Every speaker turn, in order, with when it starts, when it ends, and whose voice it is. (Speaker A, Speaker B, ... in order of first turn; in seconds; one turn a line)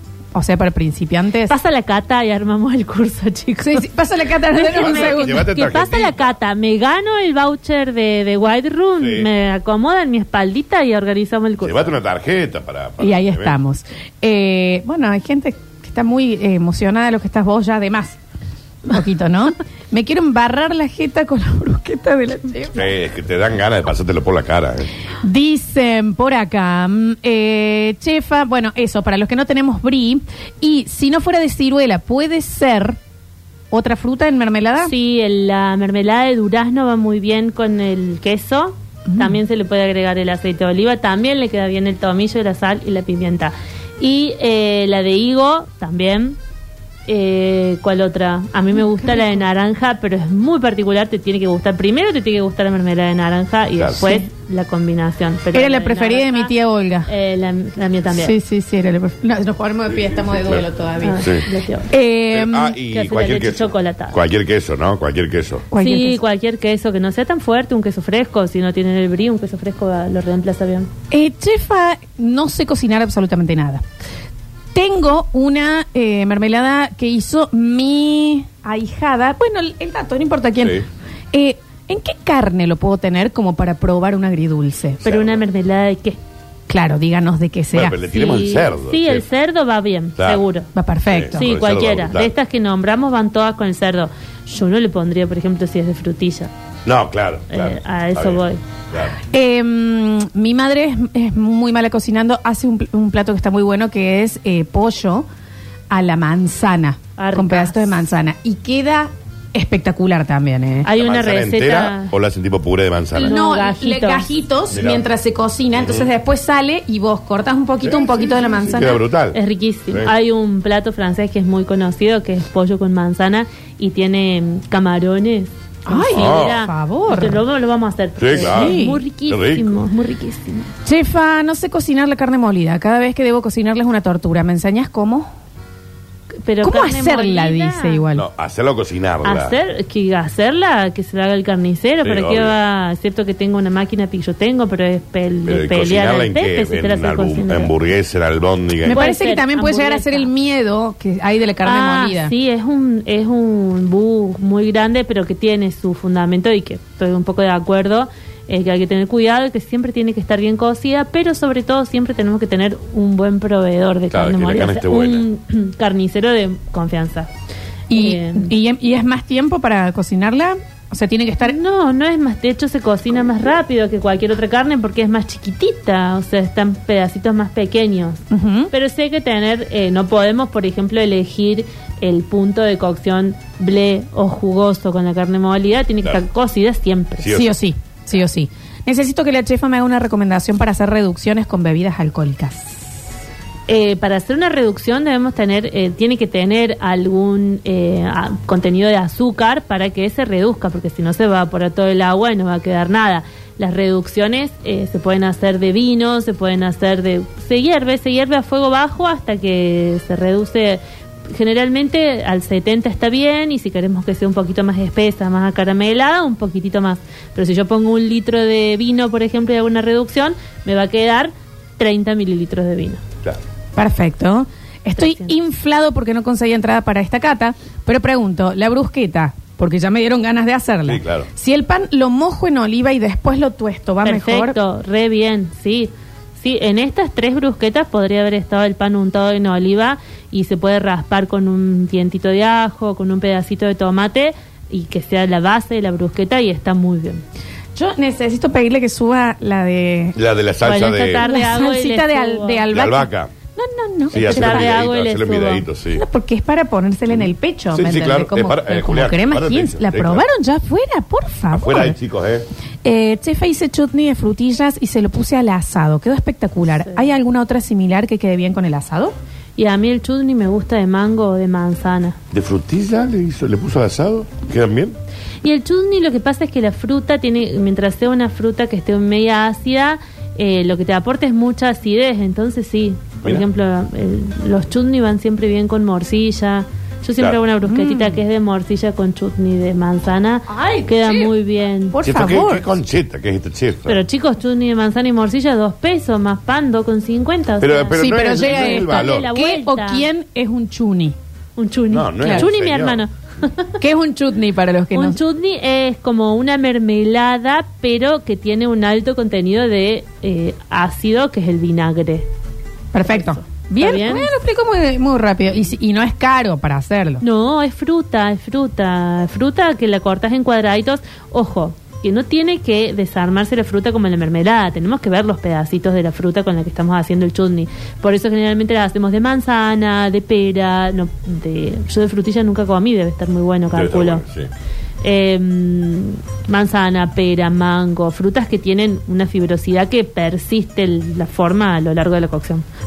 Speaker A: 0.3-1.6
Speaker B: 1.5-3.9
Speaker A: 3.6-5.5
Speaker B: 4.5-11.9
Speaker C: 4.7-6.2
Speaker C: 9.0-9.3
Speaker C: 11.6-13.6
Speaker A: 13.0-18.2
Speaker A: 18.9-22.9
Speaker C: 22.8-24.9
Speaker A: 25.2-33.0
Speaker A: 33.7-34.9
Speaker B: 34.8-46.4
Speaker A: 39.1-39.4
Speaker B: 47.1-56.5
Speaker A: 48.8-49.4
Speaker C: 53.8-54.0
Speaker A: 55.5-57.1
Speaker B: 57.1-58.3
Speaker A: 58.2-61.2
Speaker C: 60.0-60.6
Speaker B: 61.0-61.9
Speaker A: 61.9-62.8
Speaker C: 62.3-65.7
Speaker B: 62.9-64.2
Speaker A: 65.7-66.2
Speaker B: 65.8-70.9
Speaker A: 71.1-73.8
Speaker A: 74.7-80.8
Speaker A: 81.3-85.0
Speaker C: 85.0-85.4
Speaker B: 85.0-86.2
Speaker A: 86.7-88.0
Speaker C: 87.7-89.2
Speaker B: 88.1-90.7
Speaker A: 90.8-91.4
Speaker C: 91.1-92.3
Speaker B: 91.3-96.5
Speaker C: 96.9-99.2
Speaker B: 97.5-98.6
Speaker A: 99.3-105.3
Speaker A: 105.9-110.9
Speaker B: 107.2-107.9
Speaker B: 110.8-112.1
Speaker C: 111.0-113.4
Speaker B: 113.2-114.2
Speaker A: 113.2-119.0
Speaker C: 114.7-115.0
Speaker C: 115.8-116.1
Speaker C: 117.8-119.4
Speaker B: 119.3-130.7
Speaker A: 125.9-127.4
Speaker C: 126.1-126.6
Speaker C: 128.2-128.8
Speaker A: 128.3-129.0
Speaker C: 129.3-129.7
Speaker A: 130.8-135.3
Speaker B: 136.4-138.0
Speaker A: 136.6-138.2
Speaker C: 138.1-139.5
Speaker B: 139.2-147.7
Speaker C: 142.0-142.5
Speaker C: 145.5-149.0
Speaker A: 148.9-152.3
Speaker B: 148.9-150.3
Speaker B: 151.6-167.3
Speaker C: 164.1-165.2
Speaker A: 167.9-171.6
Speaker B: 167.9-168.5
Speaker B: 171.4-187.3
Speaker A: 178.3-178.7
Speaker C: 187.2-187.5
Speaker A: 187.3-192.8
Speaker B: 193.7-223.0
Speaker A: 223.8-234.6
Speaker B: 225.0-225.3
Speaker C: 230.9-231.3
Speaker B: 234.1-247.2
Speaker A: 247.8-250.2
Speaker C: 250.2-251.2
Speaker B: 250.6-252.7
Speaker A: 251.2-254.8
Speaker C: 252.7-253.3
Speaker C: 254.1-256.0
Speaker B: 254.2-255.7
Speaker A: 255.9-262.0
Speaker C: 257.1-260.2
Speaker C: 261.5-262.5
Speaker A: 262.8-269.1
Speaker B: 266.8-267.1
Speaker B: 269.6-272.2
Speaker C: 272.3-275.0
Speaker B: 275.4-291.9
Speaker A: 287.6-288.2
Speaker A: 290.5-291.3
Speaker A: 291.9-292.6
Speaker C: 292.0-294.0
Speaker B: 293.9-300.1
Speaker C: 297.6-299.3
Speaker A: 297.9-301.1
Speaker B: 301.6-303.1
Speaker C: 301.9-303.0
Speaker A: 302.2-302.5
Speaker A: 303.8-305.2
Speaker B: 304.9-312.3
Speaker A: 312.9-317.2
Speaker B: 313.1-314.3
Speaker B: 317.2-334.2
Speaker C: 333.7-334.5
Speaker B: 335.0-342.6